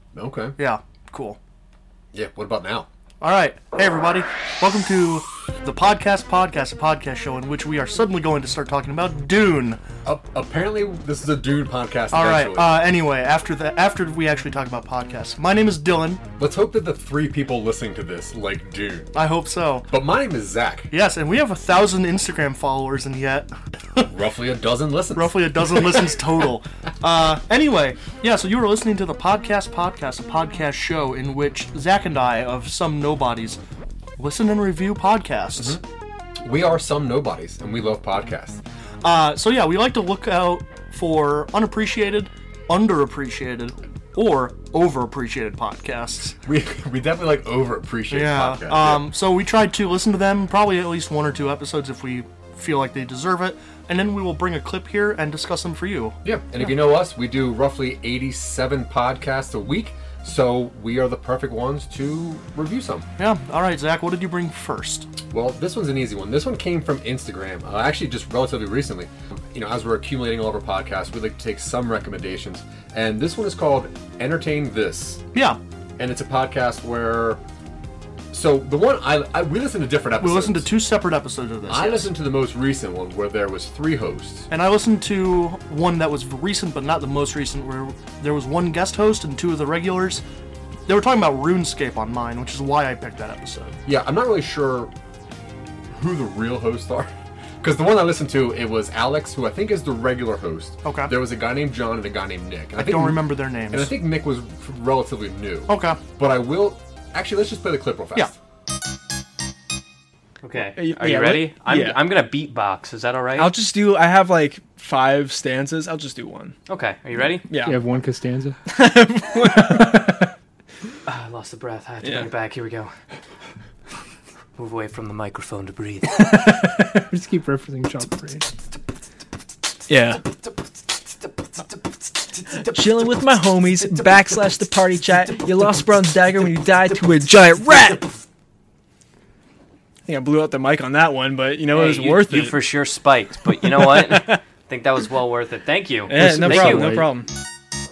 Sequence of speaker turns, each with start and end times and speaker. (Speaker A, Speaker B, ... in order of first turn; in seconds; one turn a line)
Speaker A: 0.1-0.6
Speaker B: 0.6-1.4
Speaker A: 2.1-2.9
Speaker B: 3.2-9.8
Speaker A: 10.1-12.8
Speaker B: 12.1-16.2
Speaker A: 16.4-19.1
Speaker B: 19.1-19.9
Speaker A: 19.9-20.9
Speaker B: 20.9-24.1
Speaker A: 24.0-26.2
Speaker B: 25.1-33.6
Speaker B: 34.2-35.8
Speaker A: 35.6-35.8
Speaker A: 36.4-38.6
Speaker B: 39.0-46.4
Speaker A: 46.5-49.1
Speaker B: 48.1-56.7
Speaker A: 56.2-63.1
Speaker B: 63.2-65.1
Speaker A: 65.3-75.2
Speaker B: 75.3-75.6
Speaker A: 76.0-77.4
Speaker A: 78.3-80.7
Speaker B: 80.2-82.1
Speaker A: 81.7-84.5
Speaker B: 84.5-90.2
Speaker B: 90.9-93.8
Speaker A: 93.9-94.9
Speaker A: 95.9-108.3
Speaker B: 100.8-101.2
Speaker B: 102.7-104.0
Speaker B: 105.7-106.0
Speaker C: 110.4-113.5
Speaker D: 110.7-112.1
Speaker D: 113.3-116.6
Speaker C: 116.7-117.5
Speaker D: 117.5-117.8
Speaker E: 117.6-118.6
Speaker D: 118.7-120.3
Speaker C: 121.1-122.9
Speaker D: 122.0-122.3
Speaker C: 124.6-126.2
Speaker D: 126.3-127.1
Speaker E: 127.1-128.5
Speaker D: 129.9-130.2
Speaker D: 132.6-138.1
Speaker D: 140.1-142.7
Speaker C: 141.7-147.1
Speaker D: 143.4-144.4
Speaker D: 146.1-147.3